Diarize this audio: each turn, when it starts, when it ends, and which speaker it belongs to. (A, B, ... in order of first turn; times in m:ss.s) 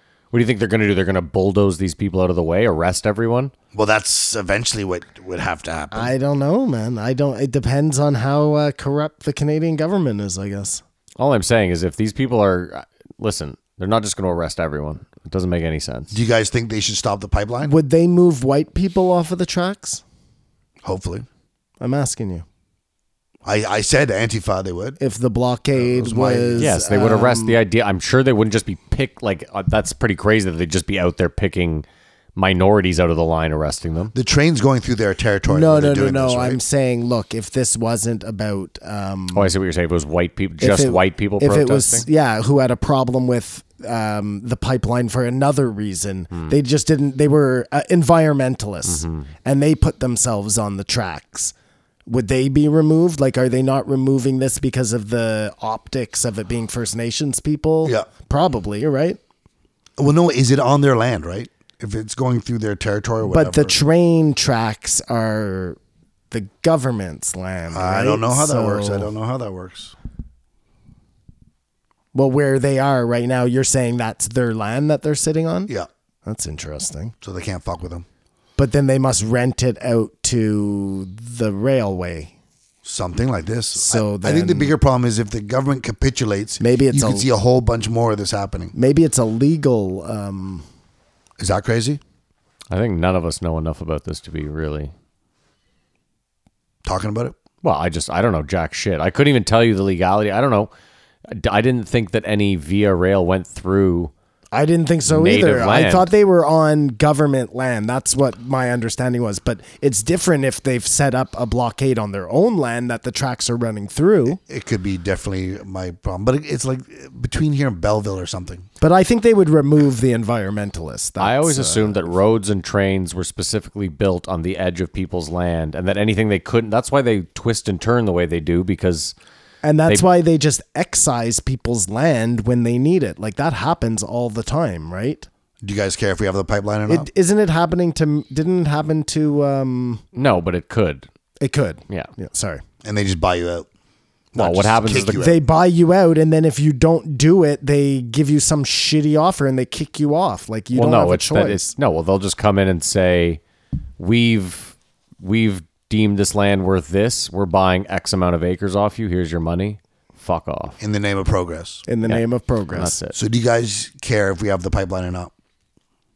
0:00.3-0:03.5 A
0:03.7-0:06.1 B
0:05.9-0:10.8 C
0:11.2-0:16.1 A
0:16.1-0:17.7 B
0:17.6-0:20.0 C
0:20.8-0:21.2 B
0:21.8-0:22.4 C
0:23.4-0:25.0 B
0:25.0-0:27.6 C
0:25.7-0:26.7 B
0:26.6-0:31.8 A
0:32.4-0:34.1 A
0:34.1-0:36.6 B
0:35.5-0:39.5 C
0:39.3-0:42.0 A
0:40.6-0:51.5 C
0:48.8-0:49.3 A
0:52.1-0:59.2 C
1:00.0-1:03.8 B
1:03.2-1:05.8 C
1:06.3-1:09.1 C
1:07.7-1:09.9 B
1:12.1-1:15.7 C
1:16.2-1:17.1 C
1:17.2-1:18.0 B
1:18.6-1:22.3 C
1:22.8-1:28.7 B
1:23.7-1:24.7 C
1:26.6-1:27.3 C
1:28.7-1:30.6 C
1:31.4-1:32.0 B
1:32.7-1:34.9 A
1:36.8-1:37.4 B
1:37.6-1:40.7 A
1:41.3-1:44.1 A
1:44.5-1:54.4 C
1:45.0-1:46.1 A
1:54.4-1:58.7 B
1:58.8-2:02.1 C
2:01.2-2:09.1 A
2:09.6-2:15.3 C
2:15.6-2:17.1 B
2:16.9-2:20.0 C
2:20.1-2:21.1 A
2:21.4-2:22.6 C
2:22.8-2:23.7 B
2:24.3-2:25.4 B
2:24.4-2:25.2 A
2:25.2-2:31.7 C
2:30.7-2:33.4 A
2:34.0-2:40.8 A
2:40.8-2:41.8 B
2:41.9-2:43.0 C
2:42.0-2:43.2 A
2:43.1-2:45.3 B